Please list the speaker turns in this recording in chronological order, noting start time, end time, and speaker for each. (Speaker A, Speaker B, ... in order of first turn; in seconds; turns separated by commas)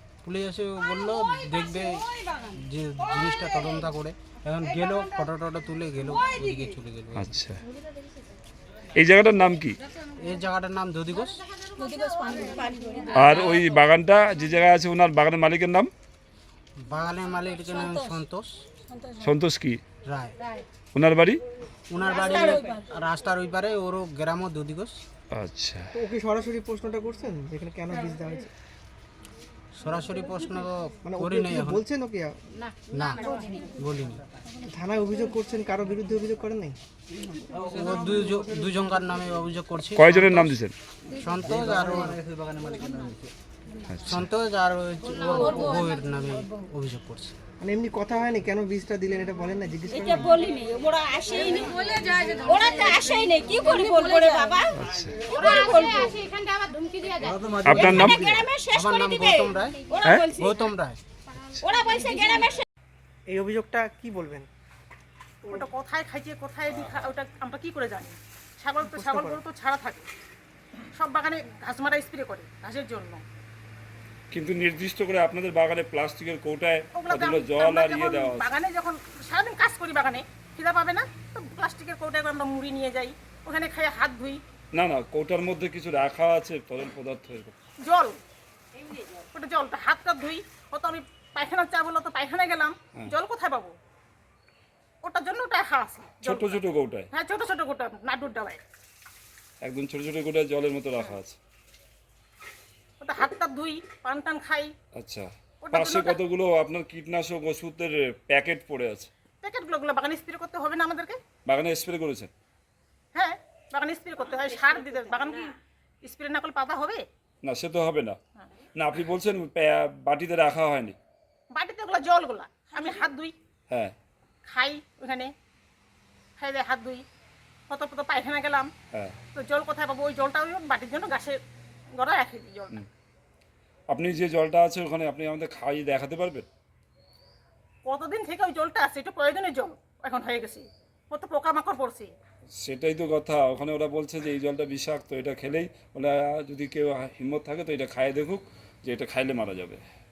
Speaker A: 0.2-7.3, Speaker B: 7.2-7.6, Speaker B: 8.9-9.8, Speaker A: 10.2-11.4, Speaker B: 13.1-15.9, Speaker A: 16.8-18.5, Speaker B: 19.2-19.8, Speaker A: 20.1-20.4, Speaker B: 20.9-21.4, Speaker A: 21.9-25.0, Speaker B: 25.3-25.9, Speaker C: 25.9-28.5, Speaker A: 29.8-31.8, Speaker C: 31.1-32.4, Speaker D: 32.7-33.6, Speaker A: 32.9-34.2, Speaker C: 34.6-36.8, Speaker A: 37.6-40.3, Speaker B: 40.0-40.7, Speaker A: 41.1-42.2, Speaker B: 43.9-44.3, Speaker A: 44.0-47.3, Speaker C: 47.6-50.4, Speaker D: 49.9-60.6, Speaker B: 54.7-55.2, Speaker E: 55.4-55.9, Speaker B: 57.6-58.4, Speaker A: 58.7-59.8, Speaker B: 60.0-60.3, Speaker A: 60.3-61.0, Speaker D: 61.6-62.6, Speaker C: 63.3-64.5, Speaker E: 65.4-70.0, Speaker C: 68.9-69.4, Speaker E: 71.0-73.2, Speaker B: 74.3-78.5, Speaker E: 76.9-84.4, Speaker B: 84.7-87.5, Speaker E: 87.8-88.2, Speaker E: 89.3-93.7, Speaker E: 95.0-96.6, Speaker B: 96.2-97.1, Speaker E: 97.1-98.6, Speaker B: 99.6-101.4, Speaker E: 103.0-104.7, Speaker B: 104.9-109.1, Speaker E: 105.6-106.2, Speaker E: 109.4-111.2, Speaker B: 111.5-112.3, Speaker E: 113.1-117.0, Speaker B: 117.4-118.2, Speaker B: 118.7-121.0, Speaker E: 121.5-123.3, Speaker E: 124.5-125.3, Speaker E: 126.4-127.0, Speaker E: 127.7-128.7, Speaker E: 129.3-131.4, Speaker E: 132.0-132.8, Speaker B: 133.9-136.5, Speaker E: 137.8-142.1, Speaker B: 142.6-149.8